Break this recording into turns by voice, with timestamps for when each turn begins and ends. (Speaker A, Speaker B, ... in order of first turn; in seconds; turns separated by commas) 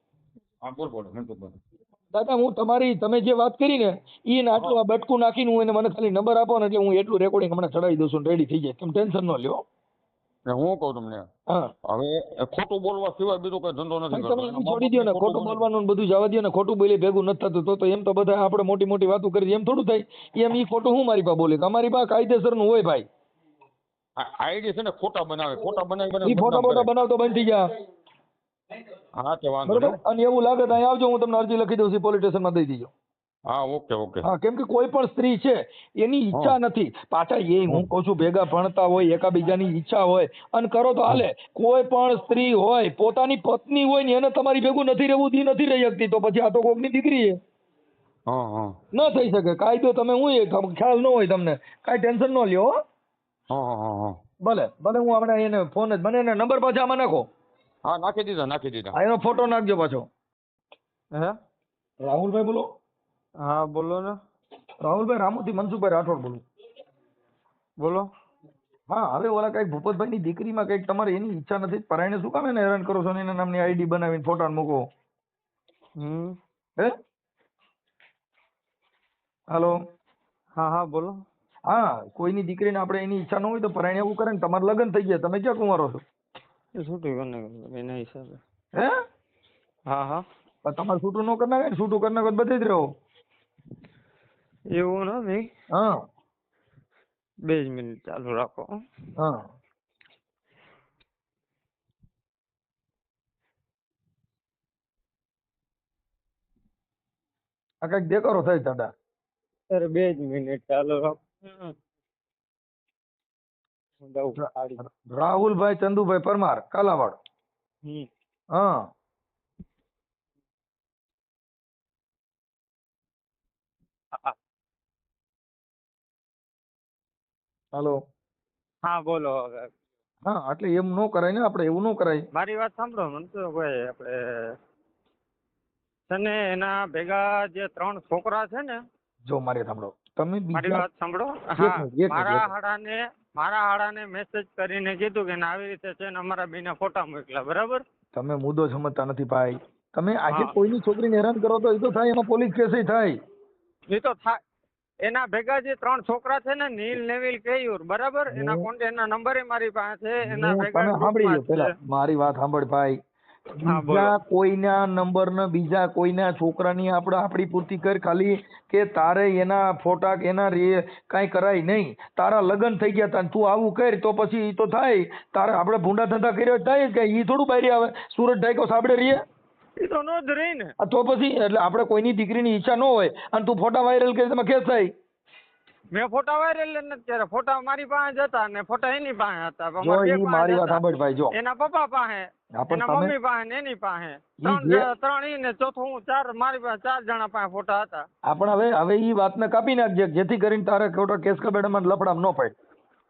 Speaker A: 0.6-1.6, Speaker B: 2.1-9.6, Speaker A: 10.5-11.3, Speaker A: 11.9-15.6, Speaker B: 14.1-23.1, Speaker A: 24.2-26.9, Speaker B: 26.2-27.7, Speaker A: 29.2-30.0, Speaker B: 29.7-32.9, Speaker A: 33.5-34.3, Speaker B: 34.2-47.4, Speaker A: 48.3-48.8, Speaker B: 48.9-52.7, Speaker A: 53.5-54.2, Speaker B: 54.4-57.3, Speaker A: 57.8-58.9, Speaker B: 58.9-60.1, Speaker B: 62.0-62.7, Speaker C: 63.4-64.2, Speaker B: 64.8-66.4, Speaker C: 67.8-68.1, Speaker B: 68.9-74.8, Speaker C: 76.0-76.4, Speaker B: 79.5-79.8, Speaker C: 80.5-81.2, Speaker B: 81.7-86.0, Speaker C: 86.8-88.4, Speaker C: 89.9-90.2, Speaker B: 90.6-92.8, Speaker C: 94.7-95.5, Speaker B: 95.7-96.0, Speaker C: 97.4-98.7, Speaker B: 99.2-99.4, Speaker B: 107.8-108.9, Speaker C: 109.7-111.7, Speaker C: 114.0-114.8, Speaker B: 114.4-117.2, Speaker B: 118.5-118.9, Speaker C: 128.8-129.7, Speaker B: 130.2-132.2, Speaker C: 132.3-134.5, Speaker C: 136.1-138.8, Speaker B: 139.2-140.8, Speaker C: 140.5-147.8, Speaker B: 141.6-142.5, Speaker B: 148.1-153.2, Speaker C: 153.9-154.4, Speaker C: 155.0-161.7, Speaker B: 158.3-158.7, Speaker B: 160.2-163.0, Speaker B: 163.6-179.2, Speaker C: 163.6-164.1, Speaker C: 179.8-180.7, Speaker B: 180.8-184.9, Speaker C: 185.9-198.0, Speaker B: 189.8-191.3, Speaker B: 192.6-193.1, Speaker B: 194.4-194.9, Speaker B: 198.2-202.5